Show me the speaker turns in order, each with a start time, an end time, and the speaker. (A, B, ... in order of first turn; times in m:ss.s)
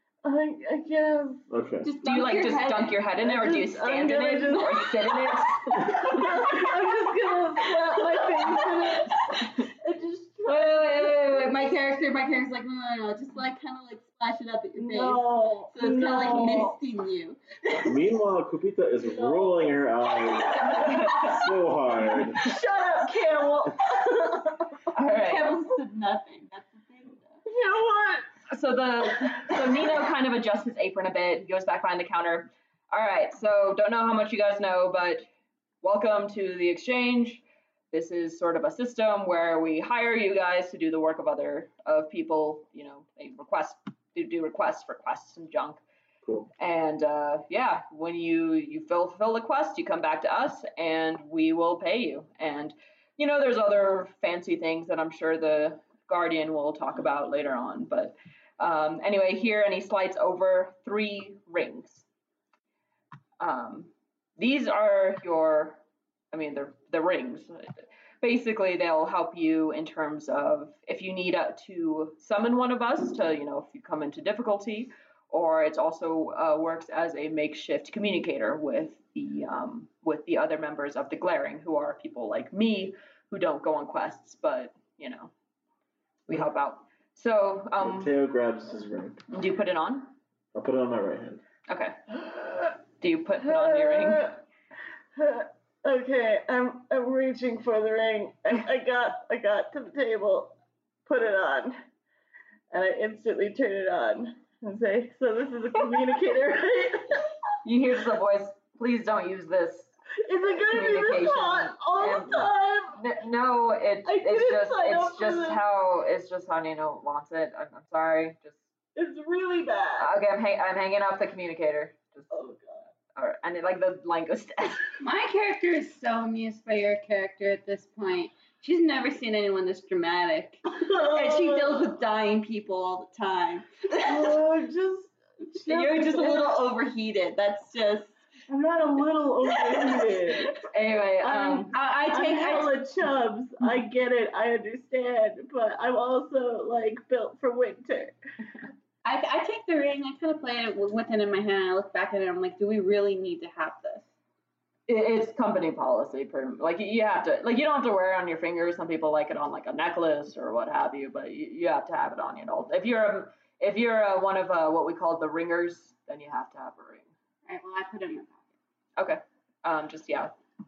0:00.2-0:01.5 A
0:01.5-0:01.9 B
0:01.8-0:03.0 C
0:02.0-0:06.5 D
0:03.2-0:11.2 A
0:06.2-0:06.6 C
0:08.0-0:09.0 C
0:10.5-0:11.5 D
0:10.6-0:18.0 C
0:14.8-0:16.8 A
0:17.8-0:22.5 B
0:20.6-0:21.4 D
0:22.3-0:24.8 A
0:24.9-0:25.6 D
0:25.1-0:27.4 C
0:27.4-0:28.3 A
0:28.5-0:35.3 D
0:35.8-0:45.8 D
0:46.6-1:02.1 D
1:03.4-1:05.8 D
1:06.3-1:25.3 D
1:26.3-1:28.1 D
1:27.8-1:29.2 B
1:29.3-1:30.1 D
1:30.5-1:31.4 B
1:31.7-1:32.0 D
1:32.3-1:32.7 A
1:33.0-1:34.3 D
1:33.4-1:34.4 A
1:35.2-1:41.8 A
1:42.7-1:47.3 A
1:47.6-1:49.9 D
1:50.2-1:53.0 A
1:50.7-1:58.6 D
1:54.0-1:55.6 A
1:59.0-2:00.1 A
2:00.0-2:02.3 D
2:02.3-2:02.9 A
2:03.2-2:04.9 D
2:05.0-2:14.2 C
2:10.7-2:11.9 A
2:14.0-2:16.6 A
2:15.6-2:18.2 C
2:18.5-2:20.6 A
2:19.7-2:20.1 C
2:20.7-2:21.7 D
2:21.2-2:28.2 A
2:21.7-2:22.8 C
2:29.0-2:34.1 C
2:34.9-2:47.1 D
2:47.5-2:48.4 C
2:49.0-2:50.3 D